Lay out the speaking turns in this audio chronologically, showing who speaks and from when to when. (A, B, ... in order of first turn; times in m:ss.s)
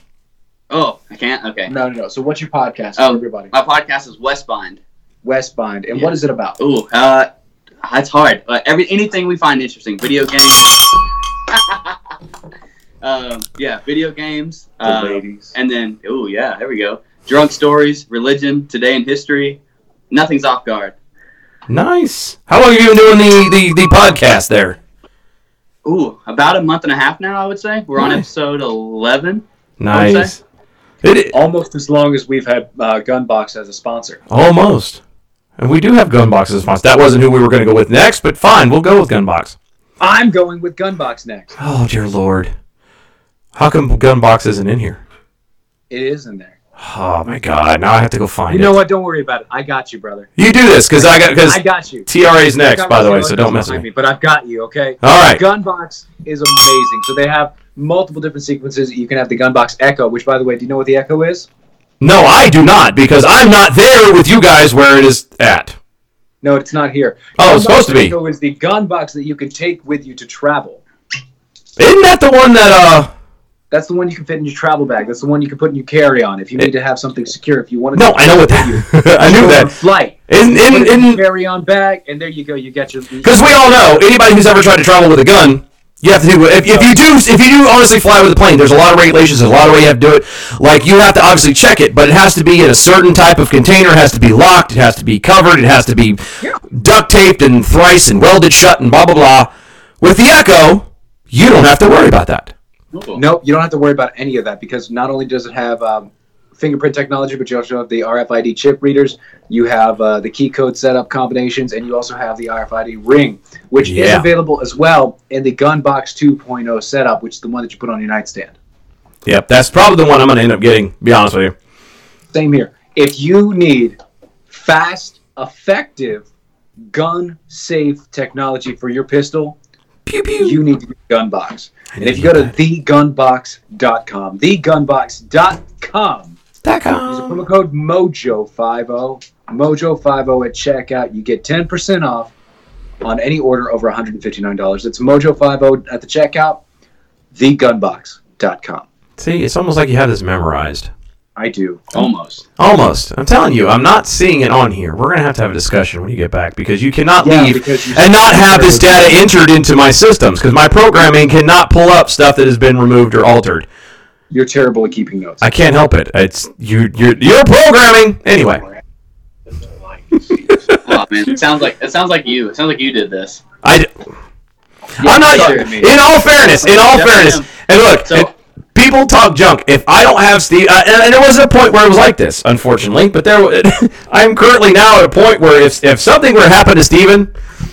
0:00.7-0:01.7 A
0:01.7-0:03.5 B
0:03.0-0:04.8 A
0:05.2-0:06.6 B
0:05.9-0:07.3 A
0:07.8-0:10.8 A
0:11.5-0:12.0 A
0:13.0-0:19.6 A
0:14.8-0:15.5 B
0:20.1-0:21.0 A
0:21.7-0:24.8 C
0:25.8-0:30.4 A
0:28.0-0:28.2 C
0:29.8-0:30.4 C
0:31.0-0:31.4 C
0:31.3-0:34.2 B
0:34.3-0:35.0 C
0:35.6-0:39.6 C
0:40.0-0:41.6 B
0:41.6-0:42.5 C
0:43.6-0:45.0 C
0:45.9-0:46.6 B
0:46.8-0:48.8 C
0:48.5-0:50.3 B
0:50.4-0:53.8 C
0:51.0-0:52.1 B
0:52.7-1:01.5 B
0:55.0-0:55.4 C
1:02.0-1:05.8 C
1:06.4-1:10.8 B
1:07.4-1:08.2 C
1:11.8-1:13.1 C
1:13.7-1:23.7 B
1:17.9-1:19.7 C
1:20.3-1:21.2 C
1:23.2-1:36.2 C
1:36.7-1:39.5 C
1:40.0-1:42.5 C
1:42.9-1:43.2 A
1:43.2-1:58.6 B
1:53.8-1:54.3 C
1:59.2-2:01.5 C
2:02.3-2:04.0 B
2:04.5-2:06.3 B
2:06.9-2:09.6 B
2:10.1-2:10.6 C
2:10.4-2:16.4 B
2:12.0-2:12.5 C
2:16.6-2:17.4 C
2:17.0-2:22.3 B
2:23.0-2:26.6 B
2:27.3-2:28.9 B
2:29.2-2:30.9 C
2:31.4-2:32.2 B
2:31.9-2:32.4 A
2:32.6-2:43.7 C
2:37.2-2:39.2 B
2:44.3-2:45.4 B
2:45.4-2:48.6 C
2:50.8-2:53.4 A
2:50.9-2:51.3 C
2:53.6-2:53.9 C
2:55.0-2:56.0 B
2:55.0-3:07.3 C
2:55.0-2:55.8 A
2:56.5-2:57.5 A